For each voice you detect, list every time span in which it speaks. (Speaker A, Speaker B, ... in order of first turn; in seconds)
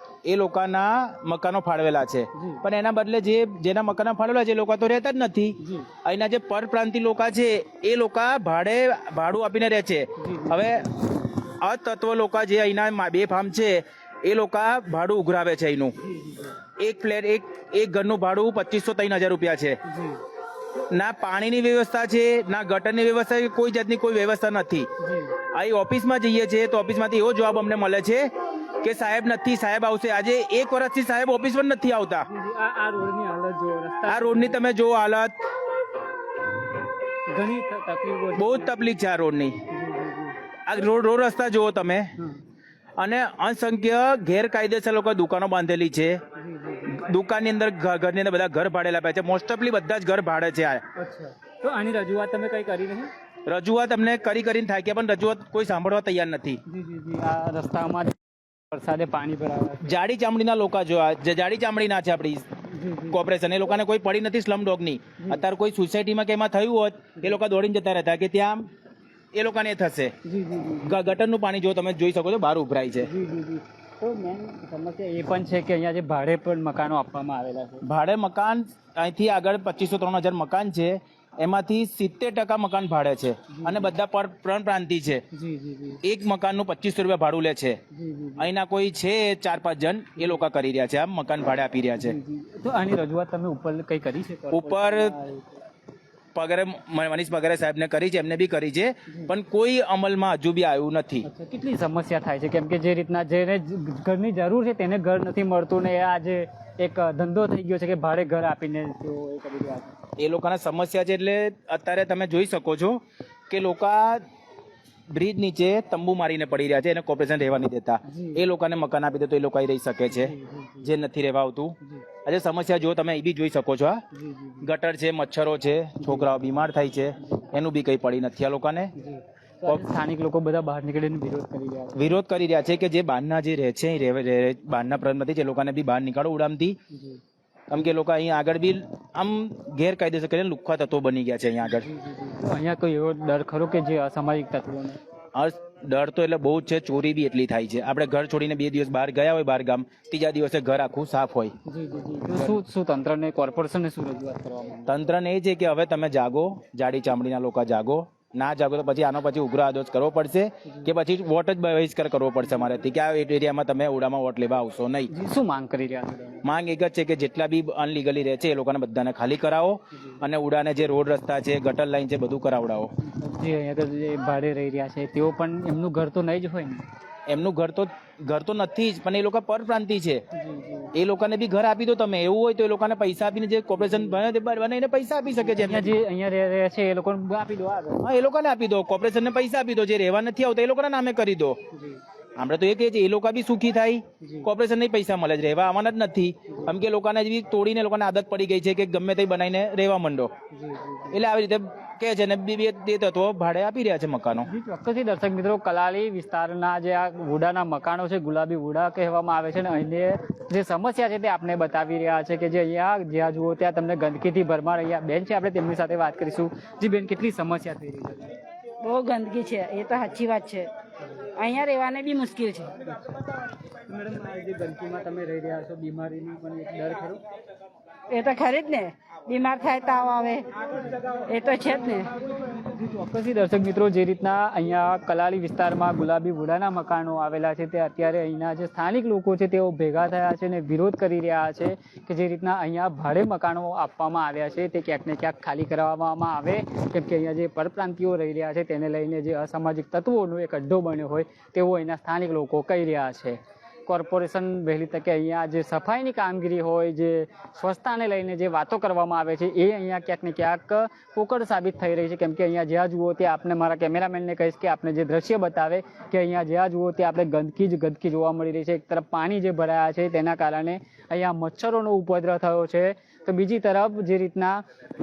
Speaker A: 0.3-10.9, 11.6-16.0, 16.8-19.8, 20.9-24.9, 25.4-28.3, 28.8-32.3, 34.1-35.4, 38.4-39.6, 40.7-42.1, 43.0-46.2, 46.9-50.8, 53.5-56.6, 59.8-62.5, 63.1-68.7, 69.3-70.1, 70.8-73.1, 77.8-85.2, 86.0-87.8, 88.4-92.2, 94.5-95.2, 96.3-101.3, 110.2-114.2, 115.1-124.0, 124.6-128.9, 132.0-136.8, 137.7-141.9, 145.3-151.5, 154.9-165.1, 166.4-172.9, 177.3-180.2, 180.9-185.9, 188.0-191.6, 192.4-200.3, 201.1-204.5
Speaker B: 2.4-2.6, 5.6-5.9, 10.2-10.8, 16.0-16.6, 19.9-20.2, 25.0-25.4, 32.2-34.6, 37.3-38.9, 39.7-40.4, 46.4-47.0, 51.0-53.1, 56.7-58.2, 58.7-59.9, 62.7-63.2, 70.2-71.1, 73.0-77.8, 83.5-84.0, 85.3-86.0, 87.9-88.5, 90.2-90.5, 92.0-95.6, 101.2-110.0, 118.1-118.4, 120.1-120.9, 124.1-124.7, 126.0-126.4, 129.0-132.1, 136.9-137.2, 141.7-145.0, 151.7-155.0, 165.1-166.4, 173.0-176.8, 180.3-180.9, 183.9-184.2, 185.4-188.1, 191.7-192.0, 194.2-194.5, 200.5-201.2, 204.4-218.3, 223.9-227.2, 232.5-274.6
Speaker C: 218.8-220.7, 221.4-222.9, 228.1-230.5, 231.2-232.1